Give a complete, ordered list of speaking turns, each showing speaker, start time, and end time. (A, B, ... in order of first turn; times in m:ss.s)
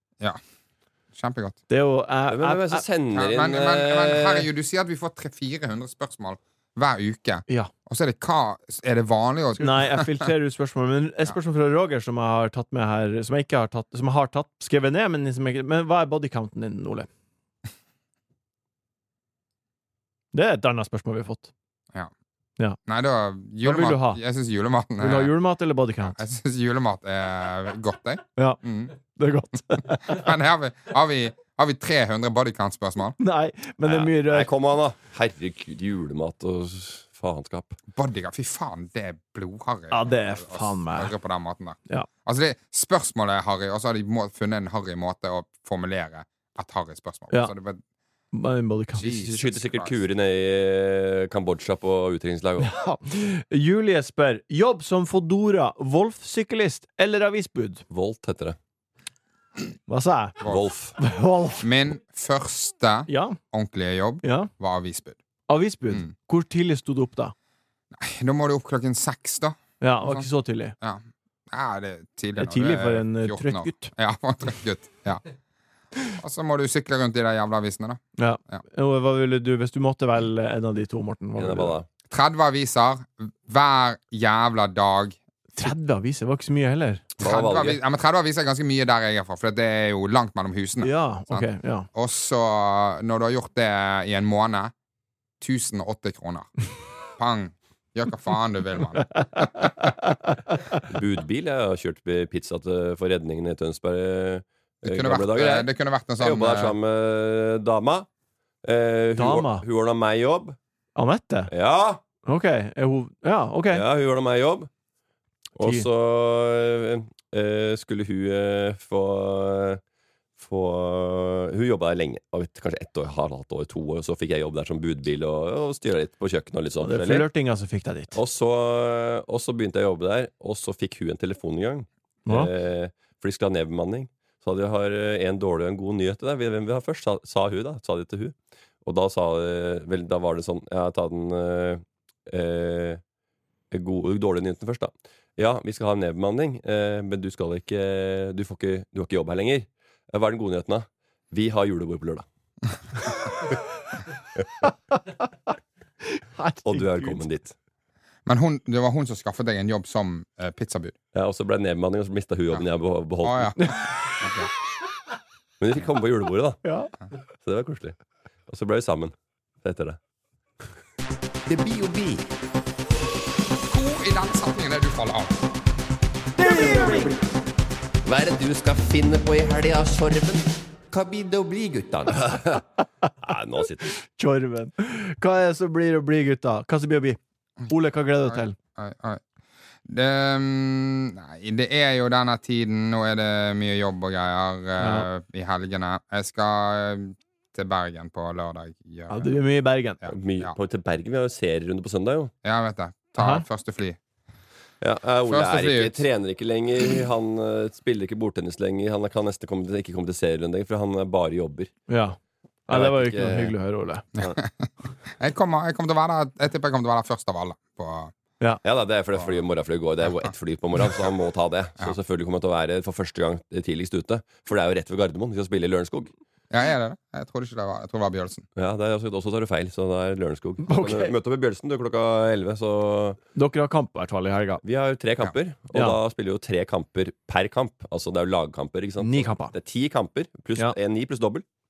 0:01.2-0:01.6 A
0:01.7-0:02.8 B
0:02.3-0:04.5 C
0:03.1-0:10.1 A
0:09.6-0:17.1 B
0:20.3-0:21.5 B
0:22.8-0:25.3 A
0:23.6-0:24.2 B
0:25.0-0:26.2 B
0:26.1-0:28.9 A
0:28.4-0:30.3 B
0:30.0-0:33.2 A
0:33.2-0:34.5 B
0:33.8-0:37.8 C
0:38.0-0:47.8 A
0:39.9-0:41.1 B
0:48.3-0:49.1 B
0:49.0-0:49.9 A
0:49.0-0:52.7 C
0:52.6-0:57.8 B
0:57.9-0:58.6 C
0:59.9-1:00.4 B
1:00.4-1:01.0 C
1:01.0-1:01.7 B
1:01.6-1:05.2 A
1:03.1-1:03.4 B
1:04.2-1:04.5 B
1:05.5-1:07.3 B
1:07.9-1:10.3 A
1:09.8-1:10.7 B
1:10.8-1:15.2 A
1:12.4-1:13.9 B
1:16.2-1:18.6 A
1:18.2-1:21.8 B
1:21.4-1:21.8 C
1:22.1-1:25.2 A
1:25.6-1:27.0 B
1:27.2-1:27.8 C
1:27.2-1:34.7 A
1:30.8-1:31.9 B
1:35.4-1:36.5 A
1:37.2-1:39.7 A
1:39.2-1:40.3 B
1:40.9-1:45.7 C
1:44.8-1:46.8 A
1:46.2-1:48.1 C
1:48.6-1:50.6 C
1:49.2-1:49.6 B
1:51.0-1:51.5 B
1:51.5-1:52.0 C
1:52.2-1:53.8 B
1:53.7-1:54.7 C
1:55.6-1:59.8 C
1:55.6-1:55.8 B
2:00.4-2:07.2 C
2:06.8-2:08.1 B
2:08.1-2:18.3 C
2:18.8-2:23.0 C
2:23.7-2:32.2 C
2:36.0-2:37.2 B
2:36.6-2:37.5 C
2:38.2-2:40.9 A
2:41.1-2:43.6 C
2:43.2-2:44.5 A
2:43.6-2:44.1 B
2:45.6-2:46.6 C
2:46.6-2:46.9 B
2:47.4-2:48.0 C
2:48.5-2:50.0 C
2:51.5-2:52.2 D
2:53.7-2:55.4 A
2:56.4-2:57.1 B
2:58.0-3:00.0 C
2:59.5-3:00.4 D
3:00.9-3:02.1 D
3:02.0-3:02.6 C
3:03.2-3:03.9 C
3:04.2-3:08.6 B
3:08.3-3:09.2 A
3:09.8-3:19.4 A
3:14.8-3:15.1 B
3:19.1-3:20.0 B
3:20.0-3:20.6 A
3:20.1-3:22.3 C
3:22.4-3:24.0 A
3:23.2-3:23.4 B
3:24.8-3:31.7 C
3:25.2-3:26.0 A
3:31.9-3:32.2 B
3:32.7-3:34.0 B
3:32.7-3:33.5 C
3:34.2-3:38.1 A
3:38.6-3:46.1 C
3:46.5-3:48.4 A
3:48.6-3:53.2 C
3:50.6-3:51.1 B
3:53.3-3:54.6 B
3:54.6-4:01.4 C
3:59.0-3:59.5 B